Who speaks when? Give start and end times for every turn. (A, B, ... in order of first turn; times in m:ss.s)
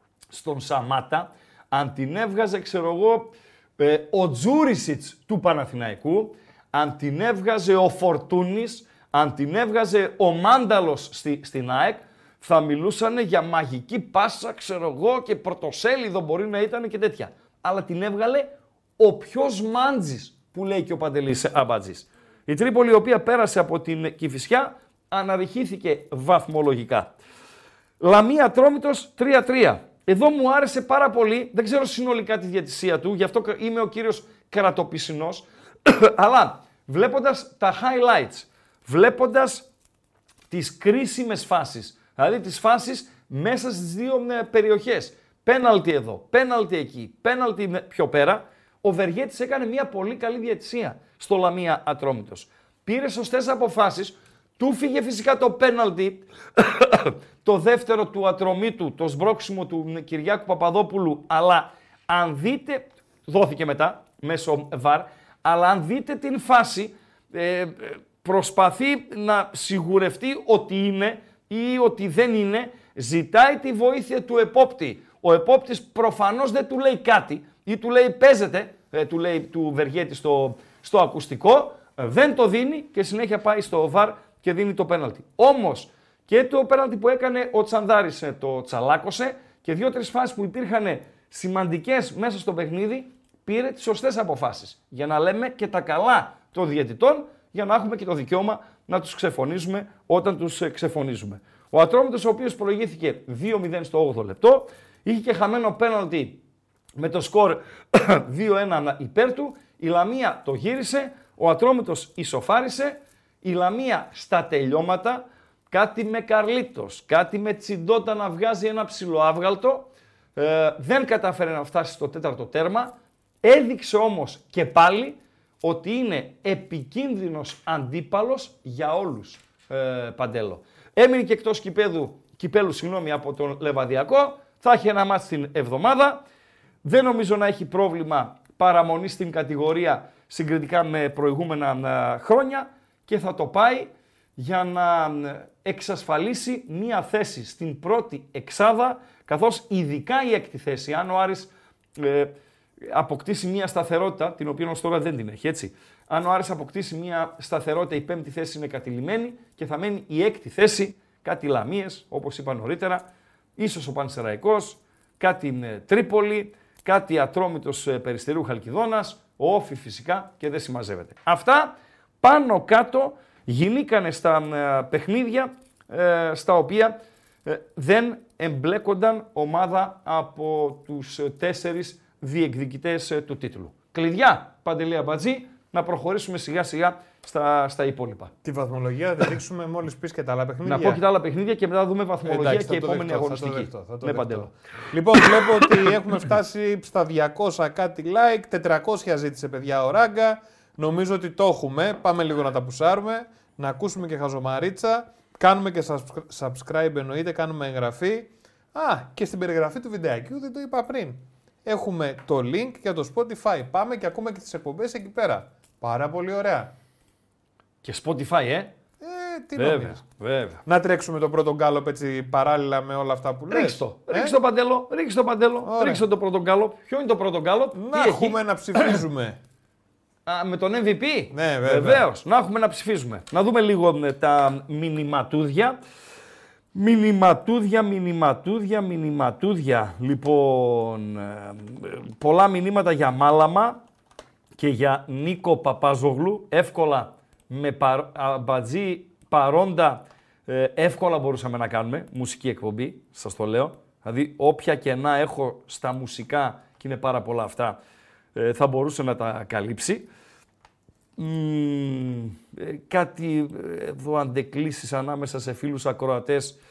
0:00.3-0:27.1 A
0:28.0-0:39.6 A
0:40.5-1:46.4 A
1:47.0-2:16.2 A
2:16.8-2:43.0 A
2:43.6-2:56.9 A
2:57.4-3:08.3 A
3:08.4-3:11.0 B
3:10.6-3:14.5 A
3:12.2-3:36.7 B
3:15.1-3:15.9 A
3:37.8-3:38.7 A
3:39.0-3:40.0 B
3:39.6-3:40.6 A
3:40.6-3:44.4 B
3:43.5-3:49.0 A
3:45.6-3:46.1 B
3:47.7-3:49.4 B
3:50.2-3:55.8 A
3:51.3-3:52.0 B
3:56.7-4:03.8 A
4:04.6-4:17.8 A
4:18.3-4:20.1 A
4:21.2-4:26.6 A